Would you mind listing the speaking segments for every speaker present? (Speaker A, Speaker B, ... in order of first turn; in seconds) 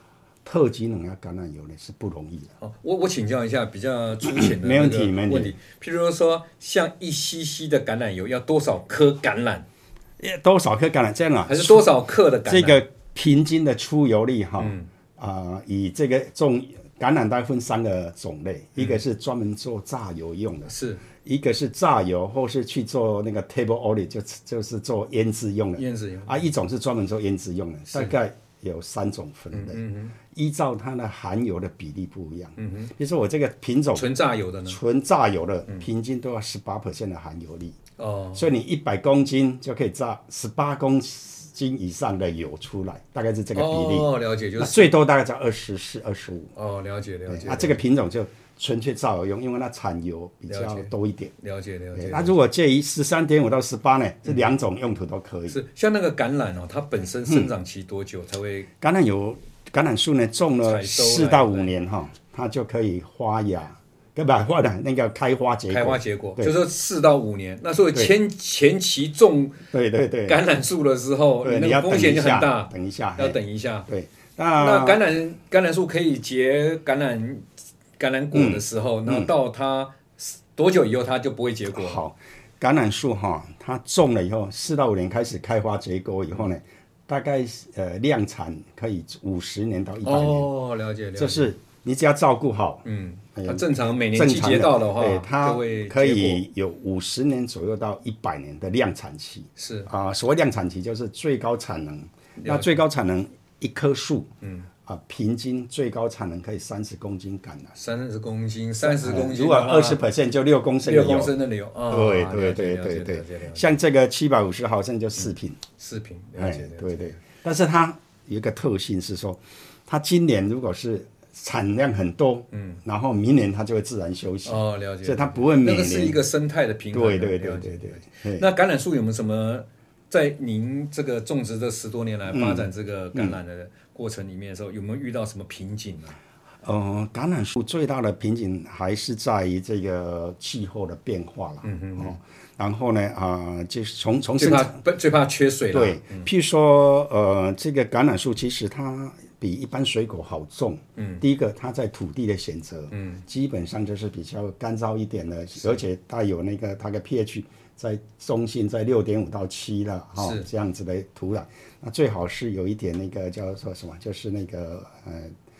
Speaker A: 0.4-2.5, 4.2-5.5, 10.2-11.9, 12.5-20.7, 21.2-34.1, 34.6-37.8, 38.3-46.5, 47.3-51.3, 52.0-55.6, 57.2-57.5, 58.8-66.6, 69.7-70.4, 71.4-75.0, 78.3-79.3, 81.7-90.5, 91.2-104.3, 104.8-107.7, 108.8-111.3, 111.9-115.6, 116.4-126.2, 126.9-128.5, 132.3-133.4, 136.6-144.8, 145.7-165.3
Speaker B: 2.6-9.6, 11.5-12.8, 14.6-14.9, 20.7-21.0, 25.8-26.4, 27.9-28.1, 29.5-30.1, 32.6-32.9, 33.9-34.8, 38.0-38.5, 43.5-44.9, 46.5-47.8, 50.5-52.3, 55.5-58.7, 60.6-61.7, 65.7-69.5, 70.2-73.9, 74.6-77.5, 78.0-82.0, 90.0-91.5, 92.8-96.4, 99.6-99.9, 102.4-102.8, 104.4-104.7, 107.8-110.0, 110.8-113.7, 115.8-117.2, 122.5-122.8, 124.4-136.2, 141.6-142.2, 144.4-146.3, 151.0-151.2, 152.9-153.2, 160.2-160.5